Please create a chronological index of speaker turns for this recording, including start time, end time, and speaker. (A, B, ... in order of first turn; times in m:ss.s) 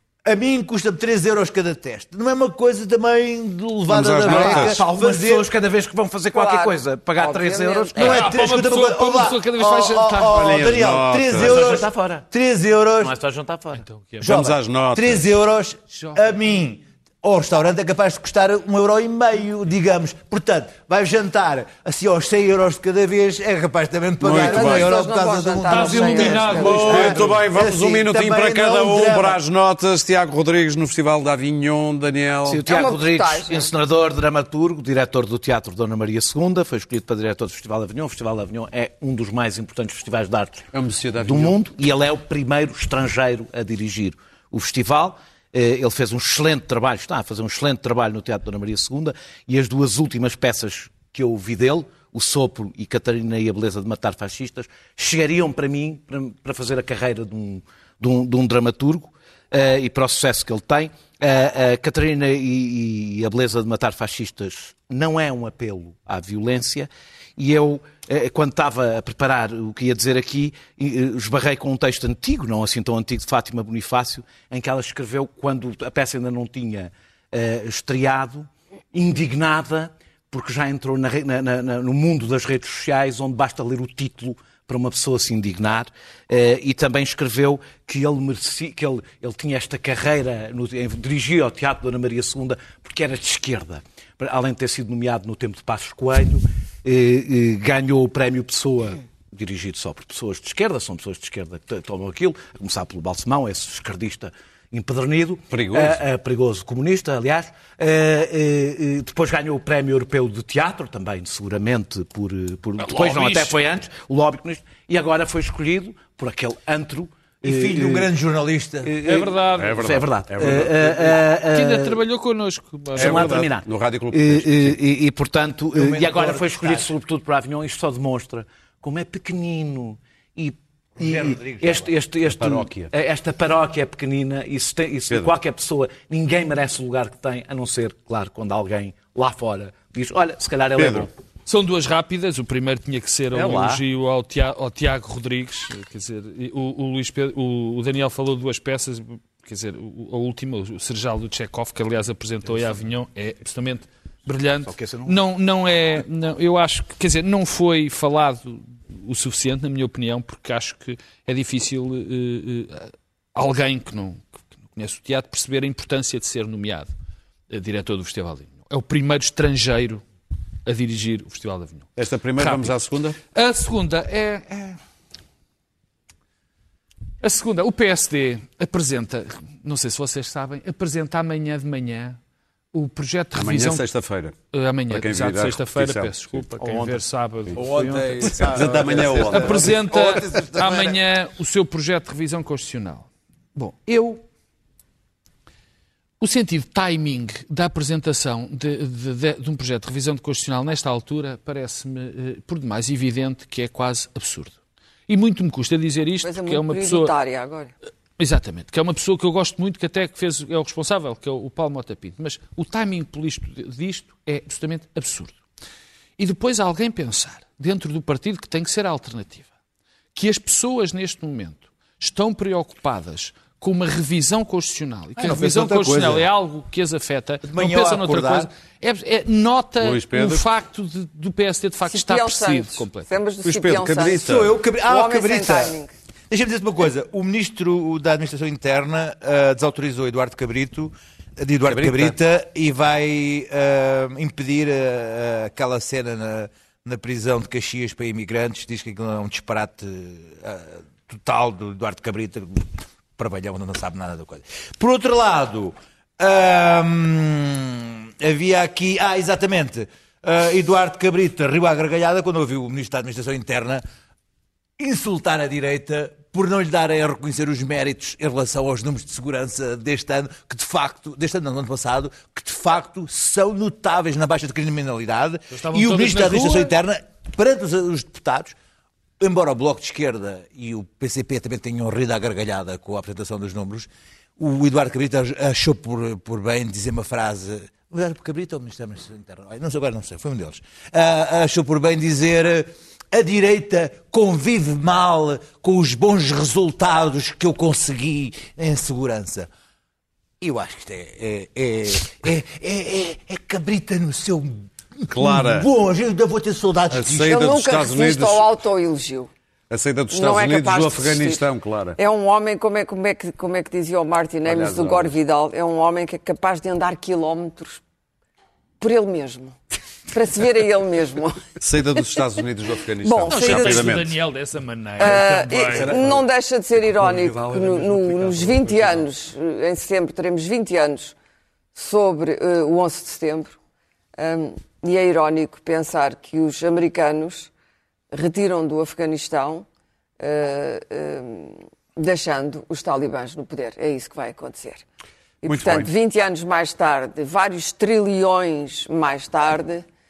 0:00.2-0:05.5 A
0:03.9-0:04.8 B
0:04.2-0:08.3 C
0:06.3-0:08.1 D
0:08.0-0:10.6 E
0:08.0-0:13.1 A
0:10.3-0:11.8 B
0:11.3-0:12.2 C
0:13.0-0:13.8 C
0:13.8-0:14.2 E
0:14.2-0:29.4 A
0:14.2-0:15.2 B
0:16.0-0:16.3 E
0:24.2-0:25.0 B
0:24.4-0:27.1 D
0:25.7-0:27.2 E
0:26.3-0:32.6 B
0:32.4-0:40.7 C
0:32.7-0:33.7 D
0:40.7-0:41.6 B
0:41.2-1:58.1 C
1:45.5-1:46.0 B
1:52.9-1:53.6 E
1:57.4-1:58.9 A
1:58.8-2:02.0 C
1:59.0-1:59.8 E
1:59.5-2:01.2 B
2:01.6-2:03.4 E
2:02.9-2:04.8 B
2:03.0-2:21.1 C
2:05.7-2:06.9 A
2:11.0-2:11.9 A
2:12.3-2:12.9 B
2:20.8-2:21.1 B
2:21.4-2:46.9 E
2:23.3-2:23.8 B
2:34.7-2:35.2 C
2:47.5-2:50.0 E
2:50.7-2:52.8 E
2:52.0-2:53.2 B
2:53.3-2:54.8 E
2:57.2-3:02.2 E
3:02.7-3:03.8 E
3:03.3-3:04.4 B
3:04.5-3:14.2 E
3:04.9-3:07.0 B
3:07.5-3:11.0 A
3:08.2-3:09.8 B
3:16.2-3:24.6 E
3:25.1-3:27.1 E
3:26.2-3:27.7 D
3:28.2-3:35.4 E
3:36.2-3:39.5 E
3:40.1-3:53.1 E
3:45.2-3:46.2 A
3:47.4-3:48.5 A
3:49.8-3:50.5 B
3:51.8-3:54.2 D
3:53.4-3:54.5 B
3:54.0-3:55.8 A
3:54.9-3:55.9 D
3:56.3-4:23.8 A
4:01.7-4:02.1 B
4:24.8-4:38.6 A
4:35.5-4:36.7 E
4:39.2-4:59.5 A
5:00.4-5:07.5 A
5:05.1-5:05.7 B
5:06.9-5:08.5 B
5:07.1-5:09.3 D
5:09.7-5:12.0 B
5:10.1-5:11.4 D
5:12.0-5:17.8 D
5:14.4-5:15.1 B
5:18.8-5:19.6 D
5:20.1-5:21.4 D
5:21.6-5:24.2 B
5:23.0-5:23.9 D
5:23.2-5:26.0 E
5:25.0-5:26.2 B
5:25.0-5:31.1 D
5:26.9-5:29.1 B
5:31.7-5:33.6 D
5:34.2-5:37.5 D
5:38.1-5:39.6 D
5:40.2-5:44.8 D
5:45.4-5:49.9 D
5:45.4-5:45.9 B